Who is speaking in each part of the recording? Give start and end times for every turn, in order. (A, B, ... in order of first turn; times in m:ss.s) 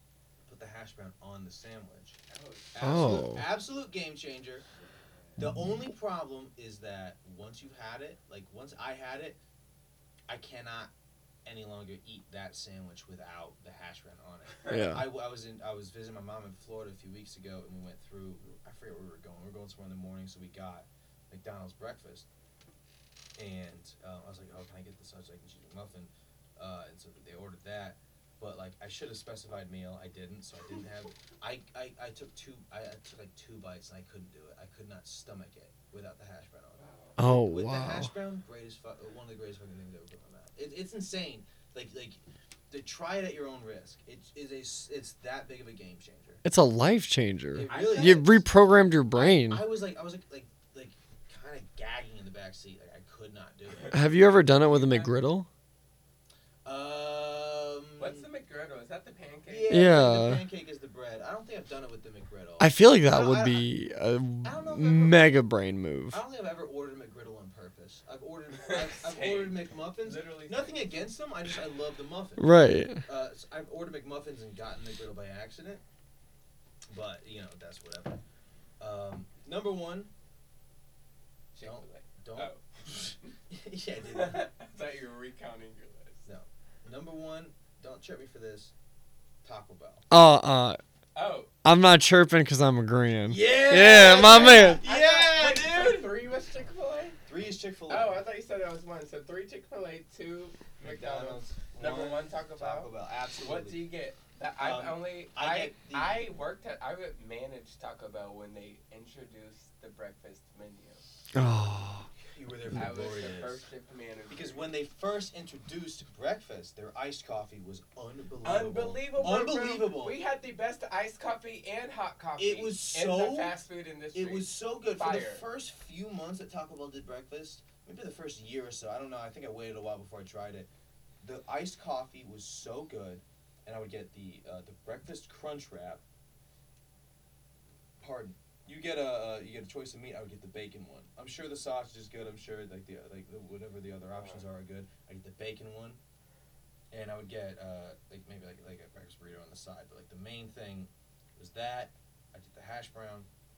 0:00.4-0:02.2 A
0:02.3-0:02.9 B
0:02.7-0:04.6 A
0:02.8-0:03.4 C
0:04.8-0:05.4 B
0:05.4-0:09.4 A
0:10.3-0:10.9 A
0:11.4-0:22.3 A
0:14.6-0:14.8 B
0:14.7-0:15.1 C
0:23.4-0:46.4 A
0:36.8-0:37.2 B
0:37.2-0:38.1 C
0:46.4-0:49.6 C
0:47.5-0:48.4 A
0:47.6-0:48.3 B
0:49.1-0:54.1 A
0:53.9-0:55.5 C
0:54.5-0:55.1 B
0:56.6-0:58.3 A
0:58.0-0:59.9 B
0:59.5-1:03.7 A
0:59.7-1:00.4 C
1:02.6-1:06.2 C
1:04.4-1:05.3 A
1:06.1-1:12.5 A
1:08.6-1:11.1 B
1:12.4-1:13.0 C
1:13.0-1:15.8 A
1:16.9-1:18.2 A
1:18.8-1:20.1 A
1:21.5-1:23.3 B
1:21.6-1:24.4 A
1:24.1-1:26.3 B
1:26.3-1:28.7 A
1:29.4-1:30.0 A
1:30.1-1:30.8 C
1:31.1-1:31.5 B
1:31.6-1:34.8 C
1:33.3-1:36.1 A
1:33.7-1:37.2 B
1:37.3-1:38.2 A
1:37.9-1:51.0 B
1:40.8-1:43.8 A
1:44.6-1:46.3 A
1:51.3-1:52.1 C
1:52.2-1:53.7 A
1:52.7-1:54.7 B
1:54.3-2:00.2 A
1:58.4-2:05.4 B
2:02.4-2:03.6 A
2:04.1-2:10.7 A
2:11.2-2:16.0 A
2:18.0-2:26.0 A
2:24.1-2:24.4 B
2:26.9-2:33.3 A